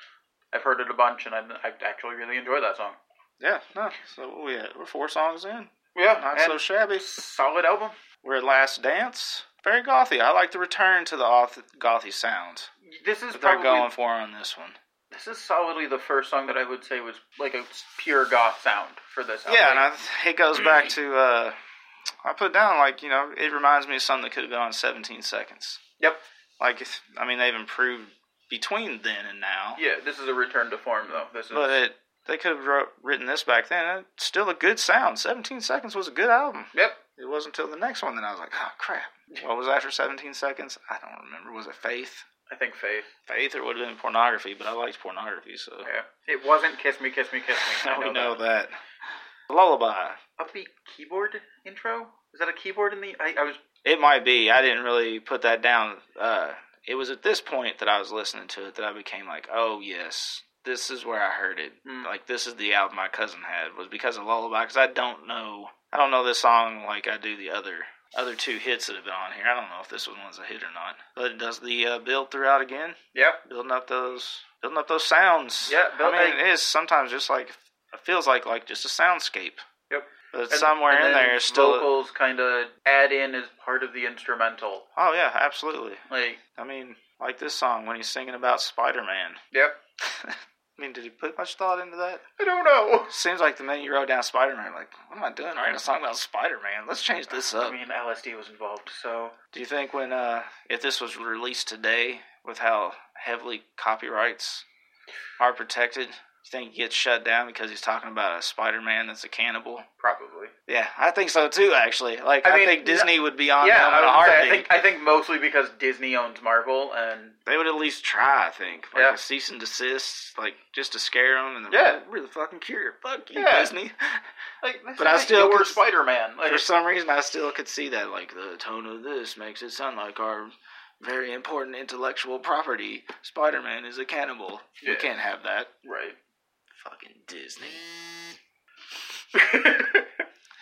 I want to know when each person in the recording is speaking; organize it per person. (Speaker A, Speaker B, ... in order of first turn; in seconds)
Speaker A: 0.5-3.0, 5.9-7.9, 12.8-13.9, 15.1-19.9, 29.8-31.8, 36.7-37.0, 42.5-43.1, 45.8-48.4, 50.4-53.6, 61.8-62.1, 73.1-73.4, 75.7-76.4, 79.9-84.8, 86.1-86.4, 89.5-89.8, 92.4-93.1, 97.5-99.3, 110.0-110.5, 112.4-117.4, 121.7-122.0, 123.3-123.7, 124.6-126.7, 134.8-135.2, 135.8-136.2, 139.3-140.1
Speaker B: 3.4-7.0, 8.2-12.7, 13.3-14.8, 19.5-21.6, 22.2-25.8, 26.6-29.8, 31.5-42.3, 43.3-45.9, 47.6-48.8, 49.5-50.2, 53.8-79.6, 80.3-81.9, 85.0-86.0, 86.5-89.4, 90.0-92.2, 93.1-97.8, 99.5-104.6, 105.4-109.8, 110.7-114.7, 117.5-124.2, 125.0-125.8, 126.4-135.7, 136.7-138.4